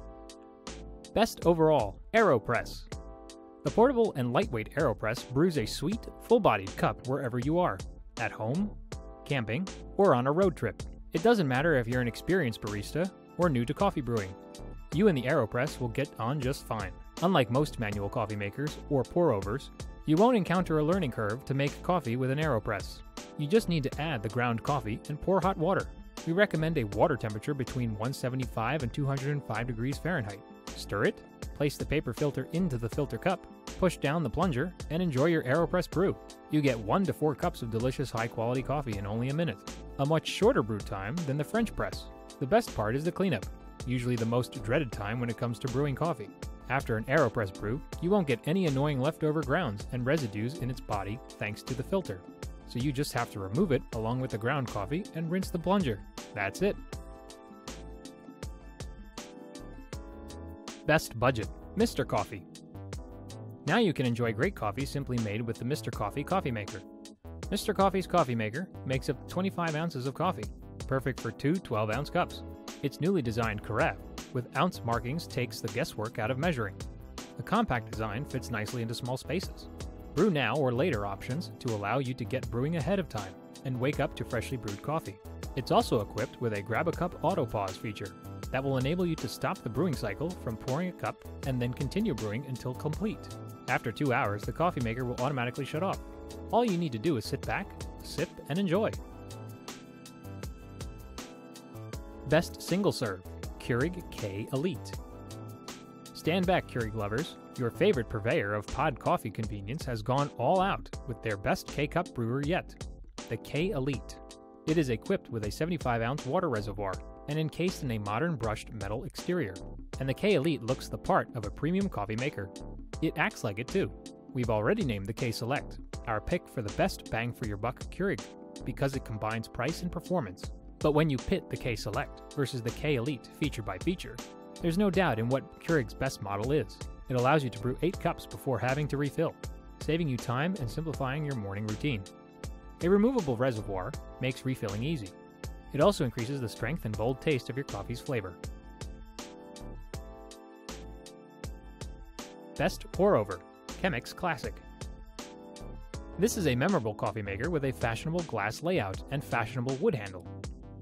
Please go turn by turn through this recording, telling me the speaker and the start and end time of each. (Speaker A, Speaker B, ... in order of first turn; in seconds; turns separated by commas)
Speaker A: 1.1-2.9, Speaker A: 3.6-14.4, Speaker A: 14.9-56.8, Speaker A: 60.9-62.5, Speaker A: 63.6-66.8, Speaker A: 67.5-76.8, Speaker A: 77.4-99.0, Speaker A: 102.3-105.0, Speaker A: 106.1-142.1, Speaker A: 142.8-145.2, Speaker A: 145.7-148.4, Speaker A: 152.6-154.6, Speaker A: 156.2-160.3